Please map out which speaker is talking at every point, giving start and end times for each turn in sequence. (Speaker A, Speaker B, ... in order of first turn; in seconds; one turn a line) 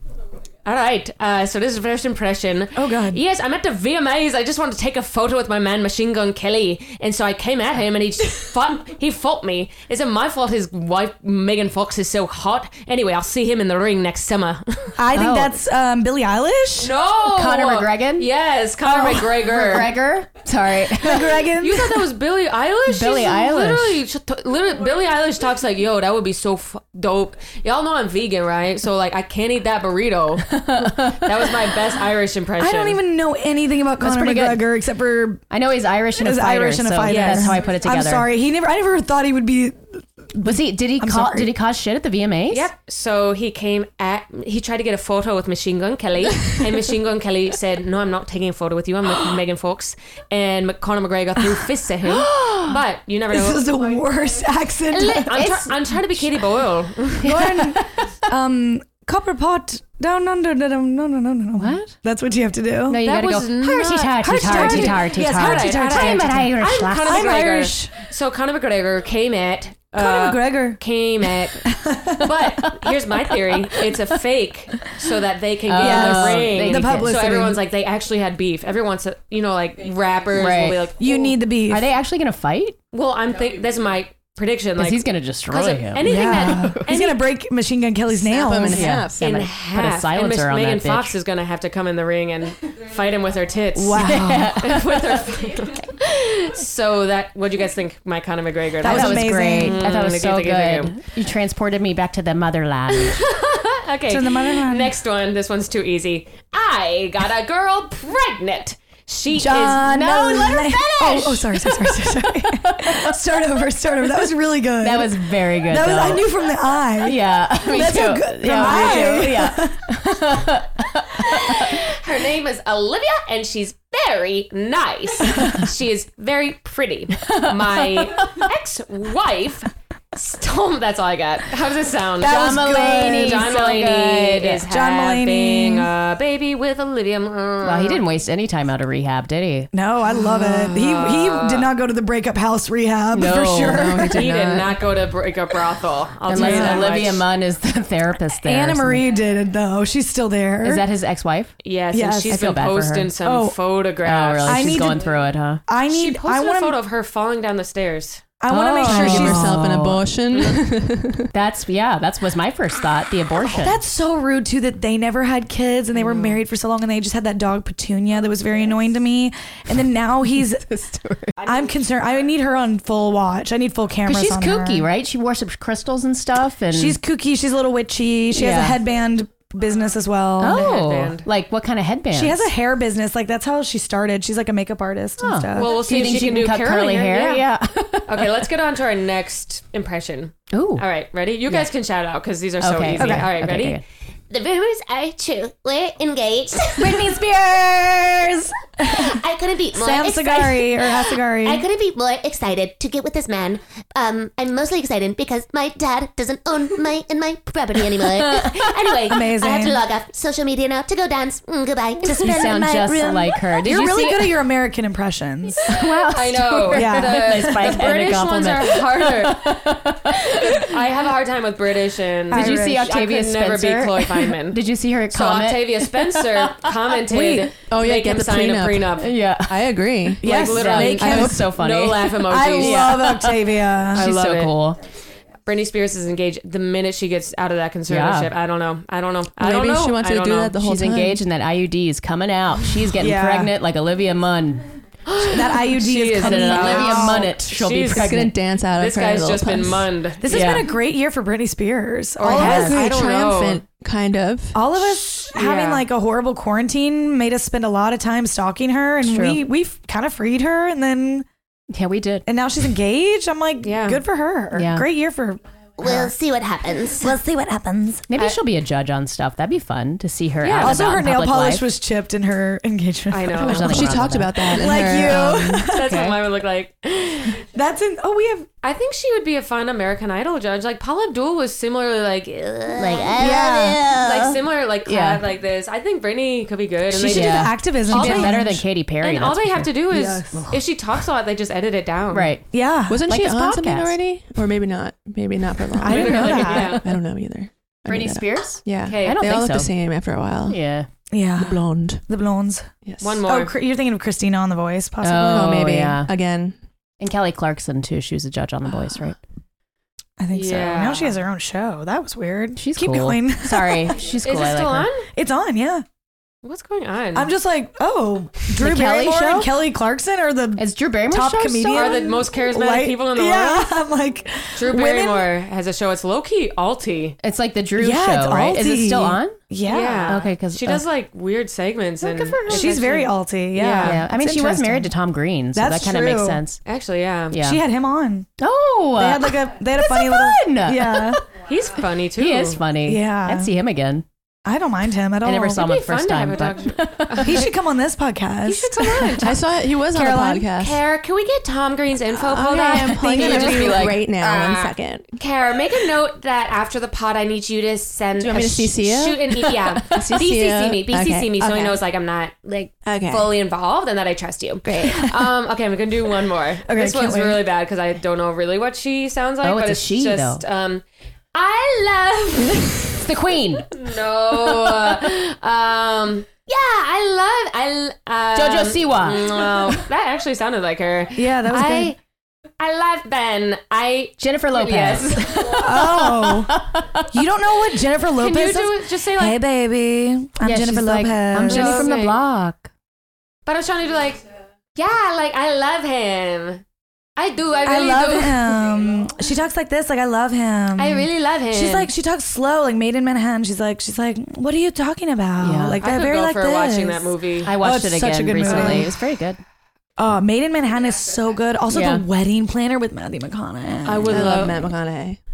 Speaker A: 0.7-15.0
Speaker B: 2.8-3.2
Speaker B: 15.0-16.9
Speaker C: 15.1-15.6
Speaker A: 16.8-19.9
Speaker C: 17.2-18.3
Speaker C: 18.9-21.4
Speaker B: 21.0-22.1
Speaker A: 21.6-33.0
Speaker C: 22.9-24.0
Speaker C: 30.5-31.5
Speaker B: 32.6-35.4
Speaker C: 34.0-34.7
Speaker C: 35.5-38.3
Speaker B: 36.2-41.5
Speaker A: 37.1-37.6
Speaker C: 40.4-42.7
Speaker A: 42.5-53.7
Speaker B: 52.1-52.8
Speaker B: 53.3-55.6
Speaker A: 54.9-57.5
Speaker C: 55.3-56.2
Speaker B: 57.2-63.0
Speaker C: 57.3-57.8
Speaker C: 61.6-61.9
Speaker C: 62.9-67.3
Speaker A: 63.0-71.7
Speaker B: 64.2-68.0
Speaker B: 70.0-70.8
Speaker B: 71.6-73.9
Speaker A: 72.2-81.4
Speaker C: 75.7-77.5
Speaker B: 75.8-77.6
Speaker C: 80.3-80.9
Speaker B: 81.0-81.9
Speaker C: 81.7-82.8
Speaker A: 82.9-87.3
Speaker C: 84.8-86.1
Speaker B: 86.0-89.0
Speaker D: 88.1-89.2
Speaker C: 88.7-91.2
Speaker A: 89.2-101.0
Speaker B: 93.8-94.8
Speaker C: 94.0-95.3
Speaker B: 98.8-99.8
Speaker C: 98.8-103.3
Speaker A: 102.9-110.0
Speaker B: 104.1-104.9
Speaker B: 109.3-119.8
Speaker C: 109.8-113.5
Speaker C: 114.8-116.3
Speaker C: 117.0-121.8
Speaker A: 118.6-119.2
Speaker A: 121.2-138.0
Speaker C: 127.2-128.3
Speaker B: 132.2-133.5
Speaker C: 132.2-134.6
Speaker B: 134.7-135.9
Speaker C: 137.6-139.7
Speaker B: 139.7-144.3
Speaker A: 140.2-141.7
Speaker C: 143.1-144.1
Speaker D: 143.6-144.8
Speaker A: 144.2-147.2
Speaker C: 146.3-149.1
Speaker B: 146.3-147.0
Speaker B: 148.4-150.8
Speaker C: 150.6-151.6
Speaker A: 151.6-154.9
Speaker B: 151.9-152.4
Speaker C: 152.3-153.1
Speaker B: 153.2-153.6
Speaker C: 154.0-155.6
Speaker B: 154.4-155.1
Speaker B: 155.7-156.8
Speaker A: 155.9-158.2
Speaker B: 158.4-159.6
Speaker C: 158.5-160.1
Speaker D: 158.8-161.3
Speaker C: 161.3-163.8
Speaker B: 163.5-170.7
Speaker A: 165.9-166.4
Speaker C: 170.7-171.3
Speaker A: 171.4-171.6
Speaker B: 171.4-174.9
Speaker C: 174.1-177.0
Speaker B: 176.7-180.7
Speaker C: 178.3-178.8
Speaker C: 180.4-182.5
Speaker A: 180.4-181.3
Speaker B: 182.1-186.1
Speaker C: 185.2-188.4
Speaker A: 185.6-187.4
Speaker A: 188.1-193.8
Speaker C: 190.5-190.9
Speaker C: 192.6-193.8
Speaker B: 193.0-193.3
Speaker E: 194.3-197.1
Speaker B: 196.8-199.2
Speaker E: 198.8-212.6
Speaker B: 199.7-201.6
Speaker B: 209.1-209.8
Speaker B: 212.0-215.7
Speaker C: 212.1-214.4
Speaker C: 215.7-220.7
Speaker A: 216.1-229.1
Speaker B: 216.7-217.8
Speaker B: 222.3-222.8
Speaker C: 222.3-226.8
Speaker B: 227.1-227.5
Speaker D: 227.7-230.2
Speaker C: 229.0-229.8
Speaker B: 230.2-231.5
Speaker A: 230.2-233.0
Speaker C: 230.3-234.8
Speaker B: 232.2-234.1
Speaker A: 233.9-234.5
Speaker A: 235.5-240.6
Speaker C: 237.9-238.3
Speaker D: 239.4-241.2
Speaker C: 240.6-244.7
Speaker B: 243.0-243.5
Speaker A: 245.1-250.6
Speaker B: 245.2-247.3
Speaker C: 246.2-248.3
Speaker D: 247.9-249.9
Speaker B: 250.2-252.9
Speaker C: 250.3-250.7
Speaker A: 252.2-253.6
Speaker D: 252.3-254.8
Speaker C: 252.3-252.8
Speaker B: 254.5-261.3
Speaker A: 255.3-255.8
Speaker C: 259.0-259.4
Speaker C: 261.7-262.3
Speaker B: 262.3-266.1
Speaker A: 263.6-264.0
Speaker C: 264.5-264.9
Speaker E: 265.8-267.2
Speaker B: 267.0-268.1
Speaker C: 268.1-271.7
Speaker A: 270.4-270.9
Speaker B: 270.6-274.0
Speaker A: 273.1-273.9
Speaker C: 273.4-276.1
Speaker D: 273.4-275.3
Speaker B: 274.5-276.2
Speaker A: 275.7-277.4
Speaker B: 277.4-278.5
Speaker A: 278.6-283.2
Speaker E: 282.8-284.0
Speaker C: 283.0-285.2
Speaker B: 283.2-283.8
Speaker A: 283.9-292.3
Speaker B: 286.9-288.6
Speaker C: 287.1-289.7
Speaker B: 289.9-290.6
Speaker C: 292.1-292.5
Speaker B: 292.5-293.1
Speaker D: 292.9-300.6
Speaker C: 293.1-294.0
Speaker B: 295.8-296.8
Speaker A: 295.9-296.8
Speaker C: 295.9-296.8
Speaker C: 297.9-299.7
Speaker A: 298.8-299.2
Speaker C: 300.5-300.9
Speaker B: 301.1-302.7
Speaker D: 301.4-302.0
Speaker D: 302.9-303.2
Speaker A: 303.0-303.5
Speaker B: 303.2-305.6
Speaker C: 305.0-306.1
Speaker D: 305.2-306.6
Speaker C: 307.0-309.2
Speaker B: 310.2-314.0
Speaker A: 310.3-311.2
Speaker C: 312.6-314.9
Speaker A: 314.2-315.1
Speaker B: 315.1-315.9
Speaker A: 316.4-317.3
Speaker B: 317.1-325.3
Speaker C: 318.5-319.5
Speaker C: 320.6-322.0
Speaker A: 321.7-323.7
Speaker A: 324.6-327.2
Speaker C: 327.2-329.4
Speaker B: 327.8-330.2
Speaker A: 329.6-334.0
Speaker C: 330.1-330.9
Speaker C: 332.0-332.8
Speaker B: 332.5-334.9
Speaker C: 333.8-336.6
Speaker B: 335.5-336.4
Speaker A: 336.6-337.4
Speaker C: 337.3-337.6
Speaker B: 337.3-338.3
Speaker C: 338.4-341.2
Speaker B: 338.9-341.2
Speaker A: 341.4-342.6
Speaker C: 342.1-344.1
Speaker B: 342.9-343.5
Speaker B: 344.4-345.6
Speaker C: 345.2-347.4
Speaker A: 345.6-347.5
Speaker B: 347.2-349.4
Speaker A: 348.4-349.4
Speaker D: 349.2-350.8
Speaker B: 349.9-350.5
Speaker A: 350.6-372.9
Speaker D: 352.1-355.1
Speaker C: 352.5-354.1
Speaker E: 354.2-354.6
Speaker D: 358.2-361.8
Speaker E: 360.2-360.6
Speaker D: 362.9-363.3
Speaker B: 364.7-365.3
Speaker B: 366.6-367.4
Speaker C: 369.4-370.4
Speaker C: 372.9-373.7
Speaker A: 373.7-382.0
Speaker C: 378.3-379.8
Speaker B: 381.2-381.9
Speaker A: 382.6-385.4
Speaker C: 384.2-387.2
Speaker B: 385.5-386.6
Speaker B: 387.1-391.9
Speaker A: 388.1-389.4
Speaker C: 390.4-392.7
Speaker A: 391.4-392.2
Speaker A: 393.5-394.2
Speaker A: 394.8-396.6
Speaker A: 397.2-398.6
Speaker B: 397.6-408.9
Speaker A: 400.8-401.9
Speaker C: 405.4-405.8
Speaker A: 405.8-407.5
Speaker C: 407.4-409.4
Speaker A: 408.5-408.8
Speaker B: 410.0-414.6
Speaker C: 411.7-412.1
Speaker A: 413.9-414.6
Speaker D: 414.1-415.2